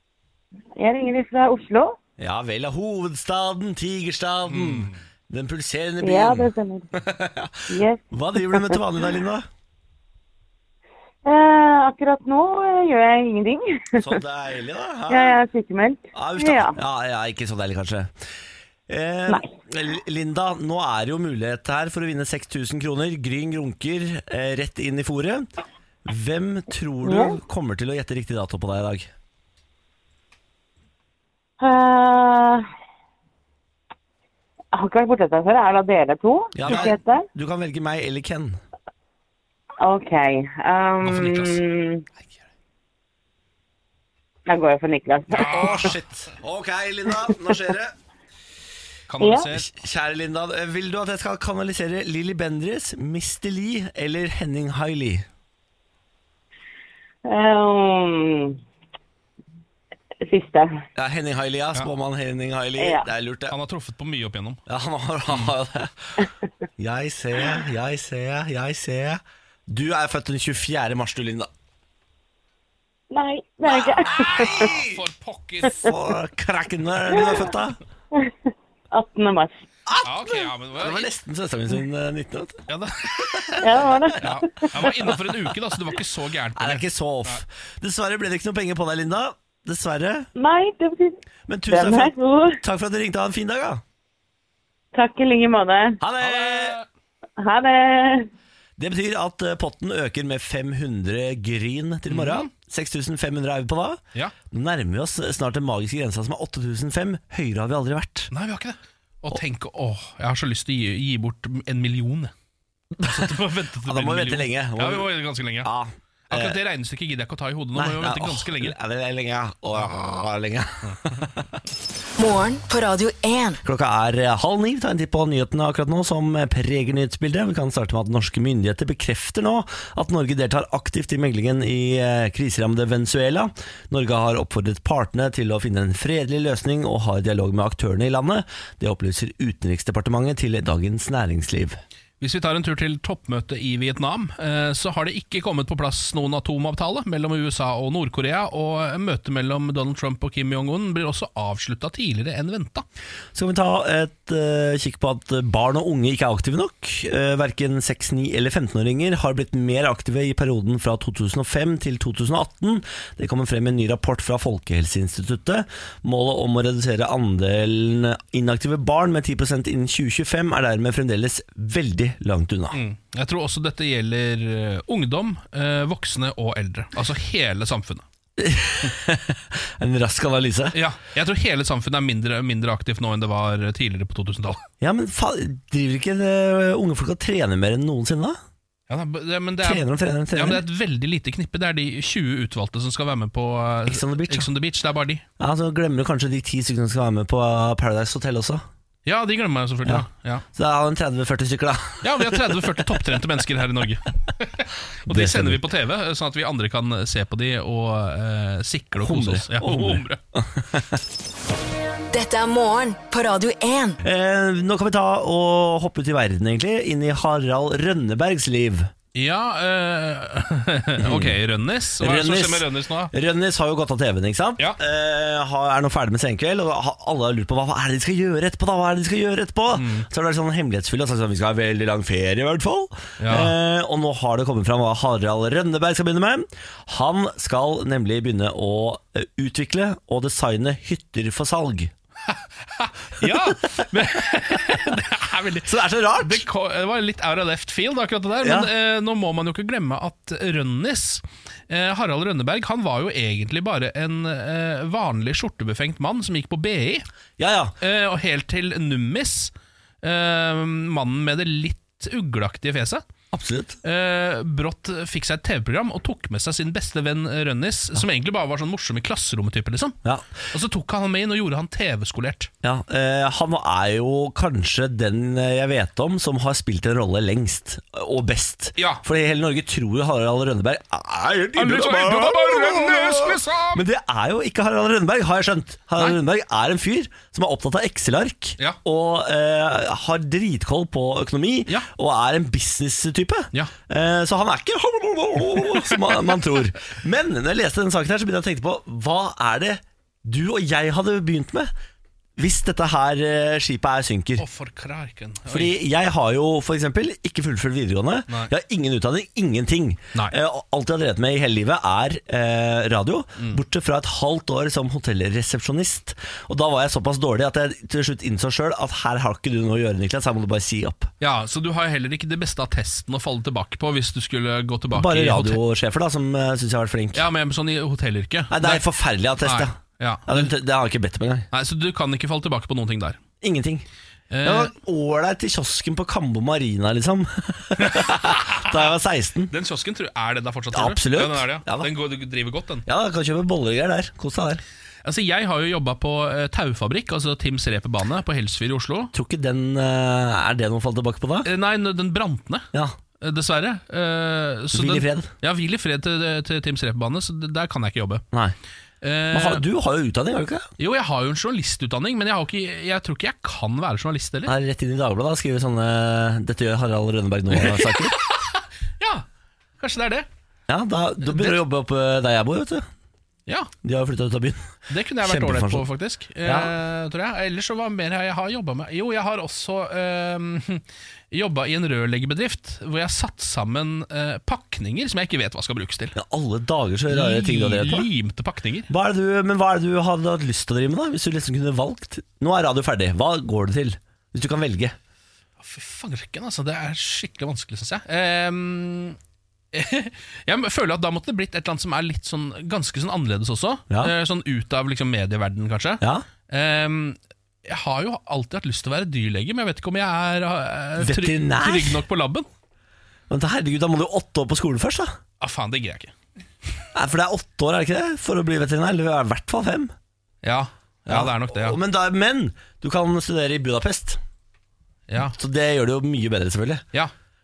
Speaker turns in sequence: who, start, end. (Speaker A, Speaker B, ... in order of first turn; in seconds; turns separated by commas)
Speaker A: 0.8-2.0, Speaker B: 2.2-9.4, Speaker C: 4.5-4.9, Speaker A: 6.0-6.9, Speaker A: 7.7-8.8, Speaker A: 11.2-14.2, Speaker B: 14.0-15.4, Speaker A: 15.1-16.8, Speaker B: 16.1-18.1, Speaker B: 18.9-25.4, Speaker B: 26.0-29.1, Speaker A: 27.0-27.4, Speaker A: 31.6-32.6, Speaker A: 34.7-37.2, Speaker B: 36.5-38.6, Speaker A: 39.8-42.0, Speaker C: 41.0-41.6, Speaker A: 44.5-45.9, Speaker C: 45.3-46.0, Speaker B: 45.4-47.9, Speaker A: 47.3-47.5, Speaker C: 49.1-49.7, Speaker A: 49.2-49.5, Speaker B: 49.5-55.2, Speaker A: 57.2-58.6, Speaker A: 60.2-60.8, Speaker B: 60.9-63.5, Speaker A: 62.8-63.1, Speaker C: 63.5-64.6, Speaker B: 64.7-66.2, Speaker B: 66.8-71.5, Speaker A: 73.1-74.7, Speaker B: 73.7-75.0, Speaker C: 74.0-75.9, Speaker B: 75.8-77.8, Speaker A: 77.1-77.5, Speaker A: 78.9-79.5, Speaker B: 79.9-82.6, Speaker C: 80.0-81.1, Speaker C: 82.7-83.6, Speaker B: 83.2-84.0, Speaker A: 83.6-85.0, Speaker C: 84.2-87.4, Speaker B: 84.8-85.1, Speaker B: 86.5-90.3, Speaker A: 90.3-92.6, Speaker B: 91.5-93.8, Speaker A: 94.9-96.0, Speaker B: 96.0-96.8, Speaker C: 96.2-96.8, Speaker A: 97.4-98.3, Speaker B: 98.8-104.0, Speaker C: 102.1-102.5, Speaker B: 104.5-108.3, Speaker C: 108.3-112.3, Speaker B: 113.0-115.1, Speaker C: 113.0-115.7, Speaker B: 115.6-116.6, Speaker C: 116.3-118.8, Speaker B: 117.7-121.4, Speaker D: 122.2-123.6, Speaker B: 123.6-141.8, Speaker C: 142.2-152.8, Speaker B: 153.3-172.8, Speaker C: 172.7-178.0, Speaker B: 178.4-180.8, Speaker C: 180.7-184.6, Speaker B: 184.8-188.4, Speaker C: 188.9-195.2, Speaker B: 189.6-190.6, Speaker B: 193.8-194.5, Speaker B: 195.4-198.6, Speaker C: 199.1-200.4, Speaker B: 199.8-203.2, Speaker C: 202.0-210.2, Speaker B: 205.1-205.6, Speaker B: 209.0-211.0, Speaker D: 212.1-214.0, Speaker B: 214.0-218.9, Speaker C: 219.1-223.1, Speaker B: 221.0-221.4, Speaker B: 222.0-241.9, Speaker C: 229.7-230.1, Speaker C: 233.2-233.5, Speaker C: 242.3-257.1, Speaker B: 243.2-243.8, Speaker B: 245.6-246.4, Speaker B: 248.4-248.7, Speaker B: 257.4-257.8, Speaker C: 257.8-263.0, Speaker B: 263.3-263.8, Speaker C: 263.8-269.9, Speaker C: 270.5-272.5, Speaker B: 272.6-301.7, Speaker C: 278.8-279.0, Speaker C: 281.6-283.8, Speaker B: 302.4-304.4, Speaker C: 304.4-305.8, Speaker B: 305.4-321.1, Speaker C: 321.2-325.6, Speaker B: 324.9-327.2, Speaker C: 327.1-328.9, Speaker B: 328.5-331.5, Speaker C: 329.4-330.5, Speaker C: 331.5-333.2, Speaker B: 333.4-333.8, Speaker C: 334.3-334.7, Speaker B: 334.4-339.5, Speaker C: 337.8-338.8, Speaker C: 339.5-342.9, Speaker B: 340.7-341.9, Speaker B: 342.9-344.6, Speaker C: 345.0-349.1, Speaker B: 349.1-351.5, Speaker C: 351.4-352.7, Speaker C: 353.2-358.2, Speaker B: 354.7-355.3, Speaker C: 359.0-359.6, Speaker B: 359.3-360.7, Speaker C: 360.8-364.5, Speaker B: 364.4-368.1, Speaker C: 367.5-369.2, Speaker C: 369.8-370.3, Speaker B: 370.7-372.9, Speaker C: 371.2-371.6, Speaker C: 373.5-373.7, Speaker B: 373.8-374.7, Speaker C: 374.9-386.1, Speaker B: 375.2-375.9, Speaker B: 376.4-376.7, Speaker B: 386.1-388.1, Speaker C: 387.1-388.9, Speaker B: 388.9-394.9, Speaker C: 395.6-399.2, Speaker C: 399.7-412.5, Speaker B: 411.0-412.0, Speaker B: 413.3-415.1, Speaker C: 415.4-416.1, Speaker B: 416.9-419.9, Speaker C: 420.4-421.8, Speaker B: 421.1-424.2, Speaker C: 425.1-425.4, Speaker B: 425.3-426.8